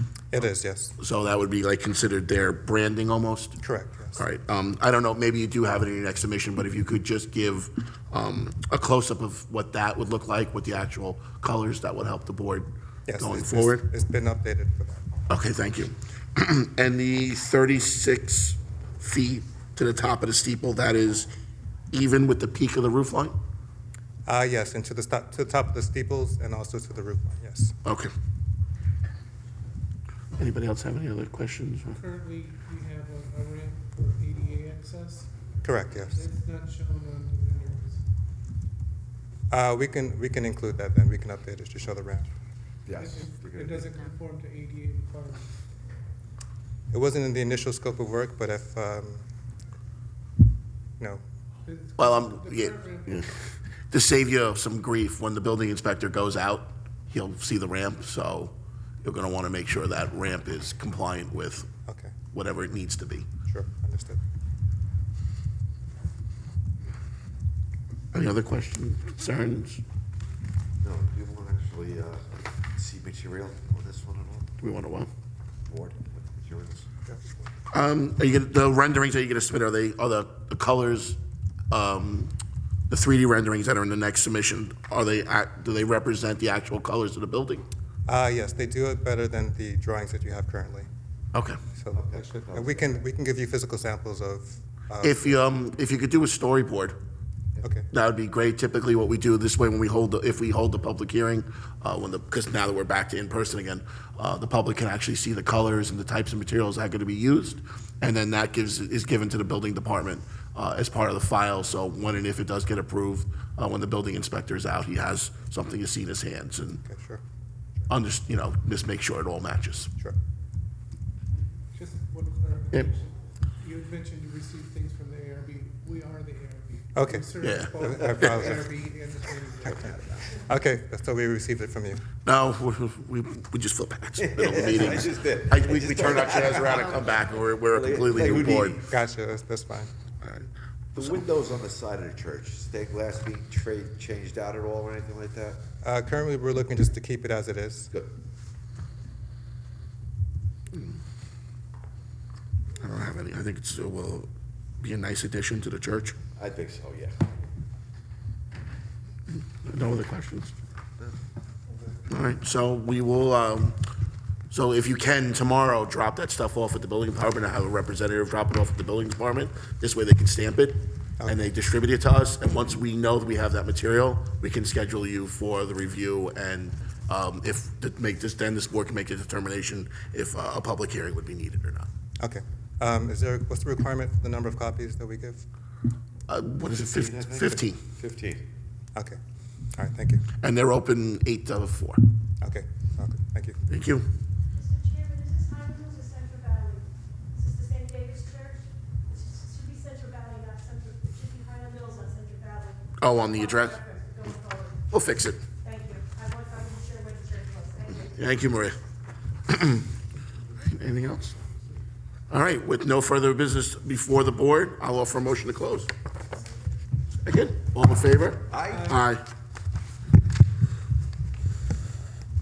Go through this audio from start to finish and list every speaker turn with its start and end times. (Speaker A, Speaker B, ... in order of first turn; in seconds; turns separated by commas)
Speaker A: 0.3-1.0, Speaker B: 1.0-3.6, Speaker A: 3.6-4.2, Speaker B: 4.2-13.9, Speaker A: 13.1-15.1, Speaker B: 15.3-21.3, Speaker B: 21.9-23.4, Speaker A: 24.3-27.8, Speaker B: 27.9-28.1, Speaker B: 30.4-32.0, Speaker C: 31.9-38.0, Speaker A: 35.6-36.3, Speaker A: 39.5-42.3, Speaker D: 42.9-43.9, Speaker C: 43.0-45.5, Speaker A: 46.9-49.2, Speaker C: 51.7-53.4, Speaker B: 52.0-53.4, Speaker B: 53.9-61.7, Speaker A: 61.9-62.1, Speaker B: 62.3-63.3, Speaker A: 63.5-64.2, Speaker B: 68.1-69.8, Speaker D: 70.8-74.5, Speaker B: 74.6-75.1, Speaker D: 75.7-76.9, Speaker B: 77.7-81.2, Speaker B: 81.7-82.3, Speaker B: 82.9-87.7, Speaker A: 88.1-90.9, Speaker A: 91.7-95.4, Speaker D: 91.9-92.9, Speaker B: 95.0-97.0, Speaker A: 97.6-97.9, Speaker B: 97.9-116.8, Speaker A: 116.8-117.2, Speaker B: 117.9-119.9, Speaker C: 121.7-130.4, Speaker A: 127.0-128.7, Speaker B: 127.4-128.5, Speaker A: 130.3-132.0, Speaker B: 132.2-138.8, Speaker D: 134.2-138.9, Speaker A: 138.9-139.9, Speaker B: 140.2-141.2, Speaker D: 141.0-145.6, Speaker A: 145.8-147.9, Speaker B: 152.8-154.3, Speaker B: 154.8-156.2, Speaker D: 156.4-157.2, Speaker B: 159.6-160.6, Speaker B: 162.1-163.8, Speaker B: 164.5-181.9, Speaker A: 182.2-185.4, Speaker B: 186.3-187.8, Speaker D: 186.7-188.4, Speaker A: 189.8-190.2, Speaker B: 190.4-192.0, Speaker A: 192.4-193.6, Speaker B: 193.7-194.1, Speaker E: 194.5-204.9, Speaker B: 203.0-203.8, Speaker B: 204.9-205.4, Speaker E: 205.6-208.3, Speaker B: 208.2-208.8, Speaker B: 209.5-209.9, Speaker B: 210.6-211.4, Speaker B: 212.3-215.9, Speaker B: 217.2-219.2, Speaker D: 218.5-219.0